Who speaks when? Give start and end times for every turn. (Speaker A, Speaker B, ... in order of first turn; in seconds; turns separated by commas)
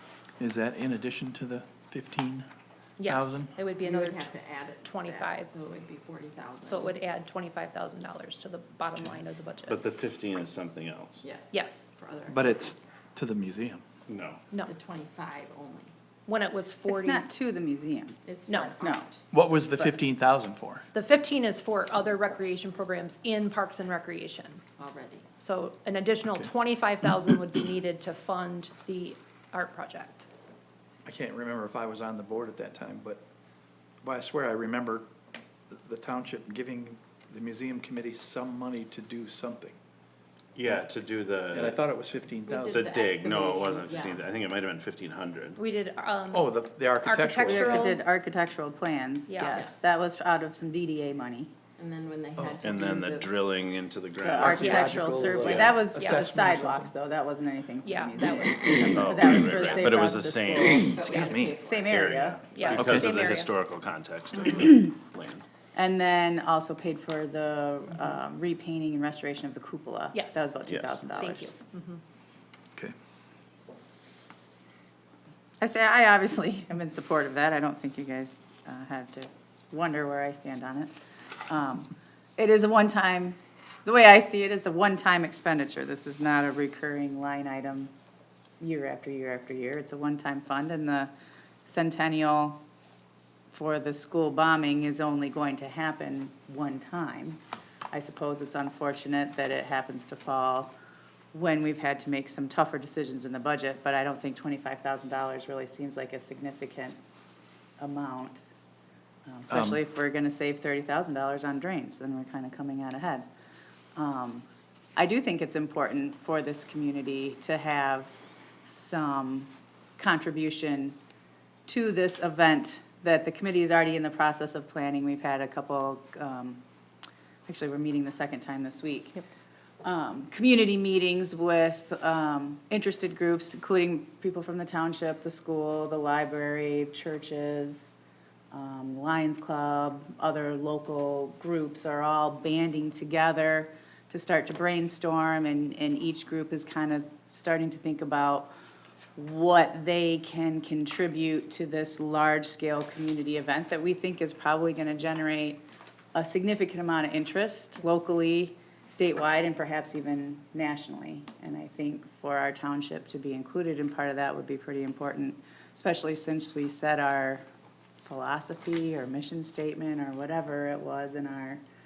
Speaker A: 0.4-2.5, Speaker B: 3.0-5.5, Speaker A: 3.0-3.5, Speaker C: 3.8-7.0, Speaker B: 6.6-9.8, Speaker D: 9.7-11.2, Speaker C: 11.2-12.7, Speaker B: 11.5-11.9, Speaker A: 12.3-13.8, Speaker D: 14.1-14.4, Speaker C: 14.6-15.9, Speaker B: 16.3-17.3, Speaker E: 16.8-18.2, Speaker C: 18.2-19.2, Speaker B: 18.5-18.8, Speaker A: 19.3-20.8, Speaker B: 20.9-24.6, Speaker C: 24.8-25.3, Speaker B: 25.4-30.3, Speaker A: 31.1-33.2, Speaker A: 34.0-35.1, Speaker A: 35.7-39.8, Speaker D: 40.5-41.8, Speaker A: 41.5-42.9, Speaker C: 42.5-44.3, Speaker D: 42.7-45.6, Speaker B: 45.5-48.0, Speaker A: 46.3-47.9, Speaker E: 47.5-51.5, Speaker B: 49.3-49.7, Speaker C: 49.5-49.8, Speaker C: 51.8-53.3, Speaker D: 52.6-55.8, Speaker E: 54.2-62.9, Speaker A: 54.4-56.9, Speaker B: 54.6-55.0, Speaker B: 56.0-56.3, Speaker B: 57.8-59.9, Speaker D: 58.9-61.1, Speaker C: 60.9-62.0, Speaker B: 61.0-61.3, Speaker A: 61.1-61.5, Speaker D: 61.9-65.4, Speaker B: 62.5-63.5, Speaker A: 62.7-63.1, Speaker E: 65.7-71.5, Speaker B: 70.1-70.6, Speaker D: 70.7-71.0, Speaker B: 71.1-72.0, Speaker E: 75.6-80.9, Speaker E: 81.5-87.9, Speaker E: 88.6-91.1, Speaker E: 91.6-92.6, Speaker E: 93.5-97.4, Speaker E: 97.9-100.7, Speaker E: 101.3-107.0, Speaker E: 107.8-108.4, Speaker E: 109.2-113.2, Speaker A: 109.5-109.8, Speaker E: 114.0-114.4, Speaker E: 115.0-118.1, Speaker E: 118.6-121.0, Speaker E: 121.7-126.6, Speaker E: 127.5-129.2, Speaker E: 129.8-137.9, Speaker E: 138.5-148.5, Speaker E: 149.2-155.6, Speaker E: 156.1-167.4, Speaker E: 168.1-171.6